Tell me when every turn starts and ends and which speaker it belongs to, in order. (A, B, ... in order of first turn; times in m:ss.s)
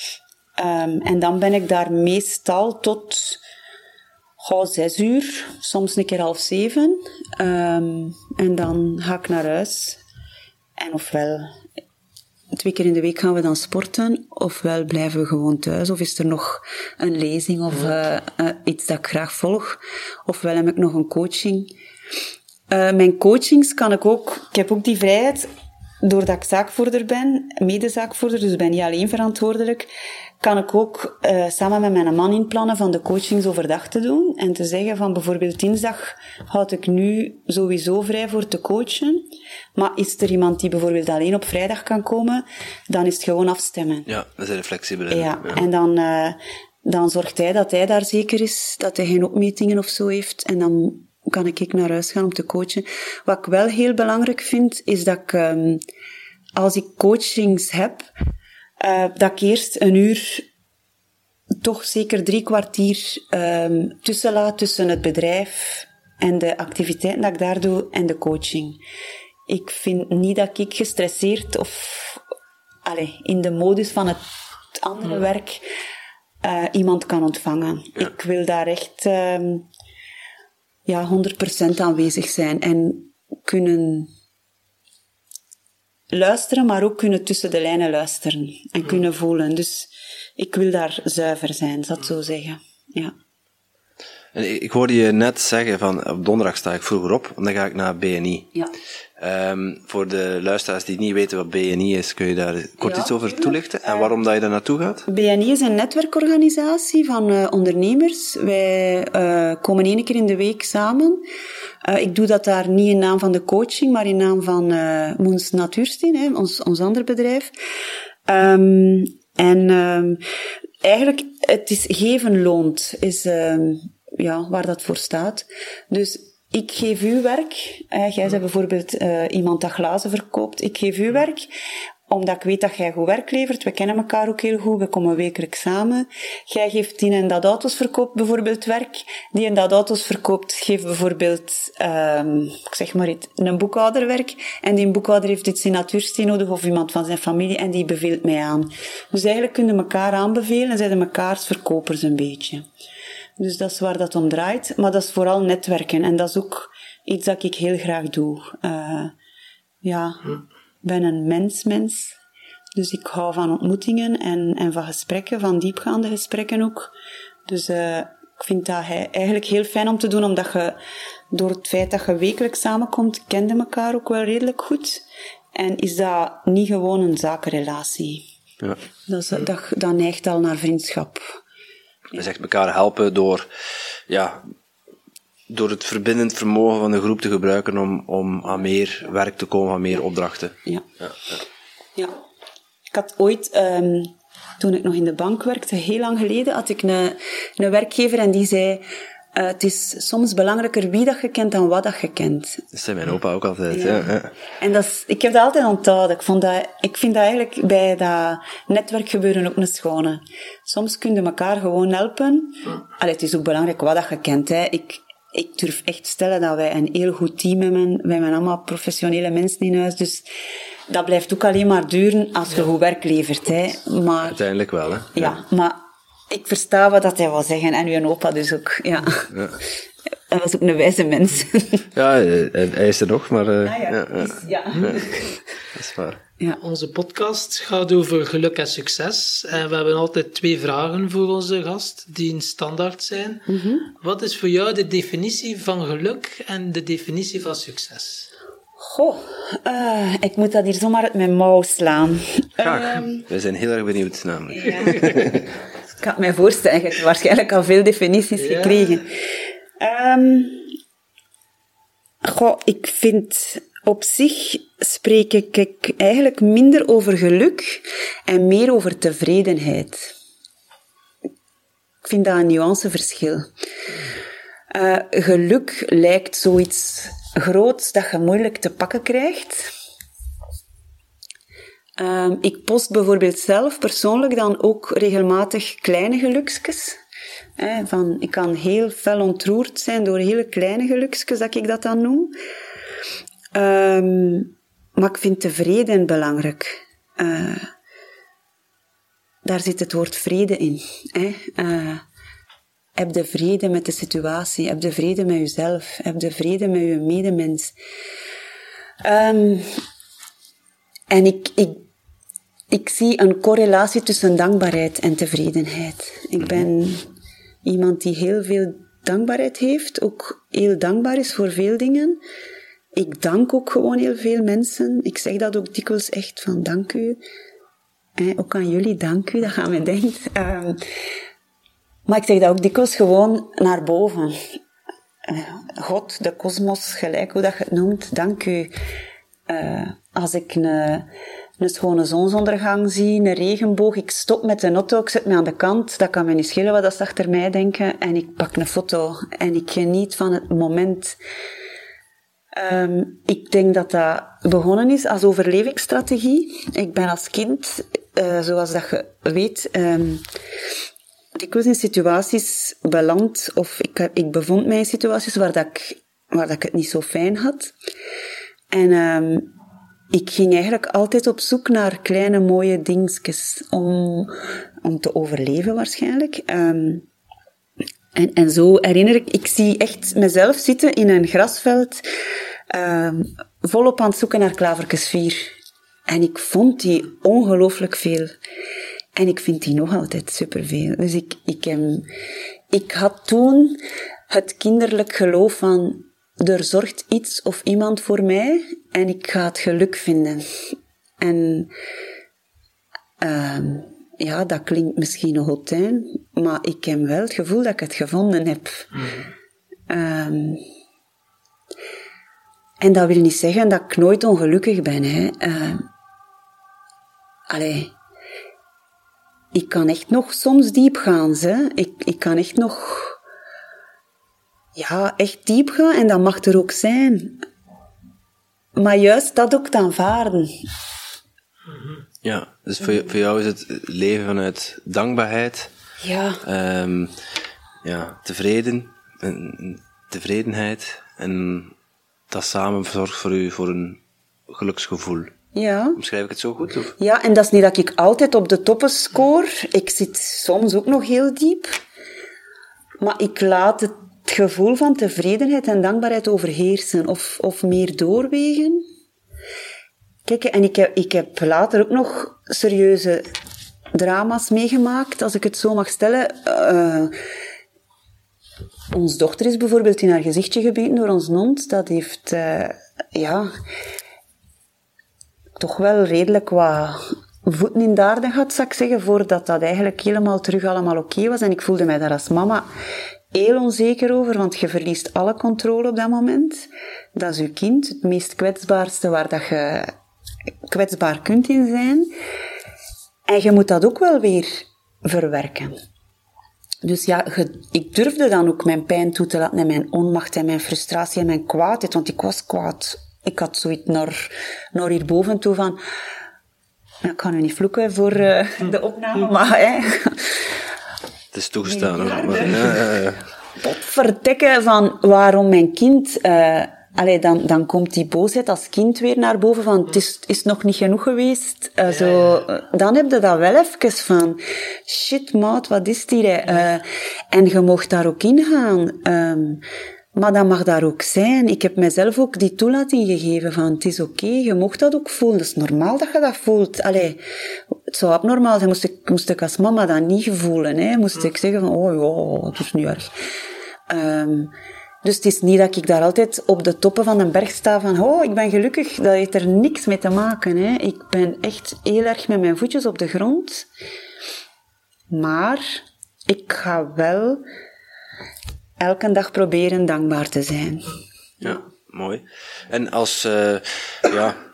0:00.6-0:03.4 A
0:04.4-0:10.0 A
0:10.8-0:11.5 A
0:12.5-0:21.7 A
0:22.7-0:25.5 A
0:26.0-0:29.9 A
0:30.4-0:39.2 A
0:39.8-0:44.1 A
0:44.1-0:45.6 B
0:45.1-0:55.8 A
0:56.6-0:58.1 A
0:58.8-1:00.5 A
1:01.6-1:08.8 A
1:09.5-1:12.2 A
1:12.8-1:14.2 A
1:14.7-1:15.6 A
1:16.4-1:19.7 A
1:20.9-1:24.1 A
1:26.1-1:33.1 A
1:34.3-1:38.6 B
1:39.2-1:45.1 B
1:42.8-1:44.1 A
1:45.1-1:51.2 A
1:51.8-1:57.5 A
1:58.3-2:00.2 A
2:00.8-2:11.5 A
2:12.1-2:32.6 A
2:33.4-2:39.1 A
2:39.8-2:42.2 A
2:42.8-2:46.9 A
2:47.5-2:50.8 A
2:51.3-2:55.0 A
2:55.6-2:58.2 A
2:59.1-3:01.4 A
3:02.1-3:03.5 B
3:04.1-3:04.4 B
3:05.5-3:11.4 B
3:12.9-3:22.6 A
3:22.7-3:24.3 B
3:23.7-3:40.3 A
3:40.9-3:44.4 A
3:44.3-3:45.4 B
3:45.1-3:49.7 A
3:49.3-3:49.6 B
3:50.3-3:51.9 A
3:51.9-3:55.1 B
3:53.6-3:55.4 A
3:55.7-3:56.2 B
3:56.6-4:08.3 C
4:03.5-4:03.9 A
4:08.8-4:13.3 A
4:12.6-4:15.5 B
4:14.6-4:15.3 A
4:16.0-4:19.1 A
4:18.4-4:19.0 C
4:19.8-4:20.7 A
4:22.2-4:30.1 A
4:32.0-4:33.5 A
4:34.7-4:39.7 A
4:42.0-4:47.0 A
4:47.6-4:52.4 A
4:53.5-4:57.7 A
4:59.4-5:02.0 A
5:03.0-5:07.7 A
5:09.0-5:09.8 A
5:11.1-5:11.8 A
5:12.7-5:17.1 A
5:17.6-5:22.2 A
5:23.0-5:27.2 A
5:28.2-5:30.9 A
5:32.1-5:34.4 A
5:35.3-5:38.7 A
5:39.5-5:41.1 A
5:41.6-5:51.2 A
5:52.5-6:00.2 A
6:01.4-6:07.7 A
6:08.7-6:09.5 A
6:10.1-6:17.1 A
6:18.1-6:22.1 A
6:22.7-6:25.5 A
6:26.1-6:28.4 A
6:29.2-6:32.1 A
6:32.7-6:40.5 A
6:41.2-6:41.7 A
6:43.2-6:49.1 A
6:49.9-6:50.6 A
6:52.8-6:55.9 A
6:57.5-6:57.9 A
6:59.5-7:03.2 A
7:04.8-7:07.4 A
7:08.8-7:10.5 A
7:11.7-7:12.0 C
7:12.2-7:15.7 B
7:16.0-7:16.4 A
7:16.4-7:17.2 B
7:17.8-7:21.7 B
7:22.3-7:25.3 B
7:25.5-7:26.0 A
7:26.0-7:27.0 B
7:27.0-7:31.7 A
7:33.0-7:38.8 A
7:40.3-7:43.3 A
7:43.9-7:47.2 A
7:48.9-7:53.5 A
7:55.6-8:02.7 A
8:03.3-8:09.9 A
8:10.7-8:12.1 A
8:13.3-8:15.8 A
8:16.8-8:25.8 A
8:27.0-8:30.6 A
8:31.3-8:33.2 B
8:31.7-8:32.8 A
8:33.6-8:49.6 A
8:42.0-8:42.4 C
8:50.2-9:03.1 A
9:03.9-9:04.5 A
9:05.0-9:13.7 A
9:15.1-9:17.4 A
9:18.8-9:21.6 A
9:21.4-9:24.4 B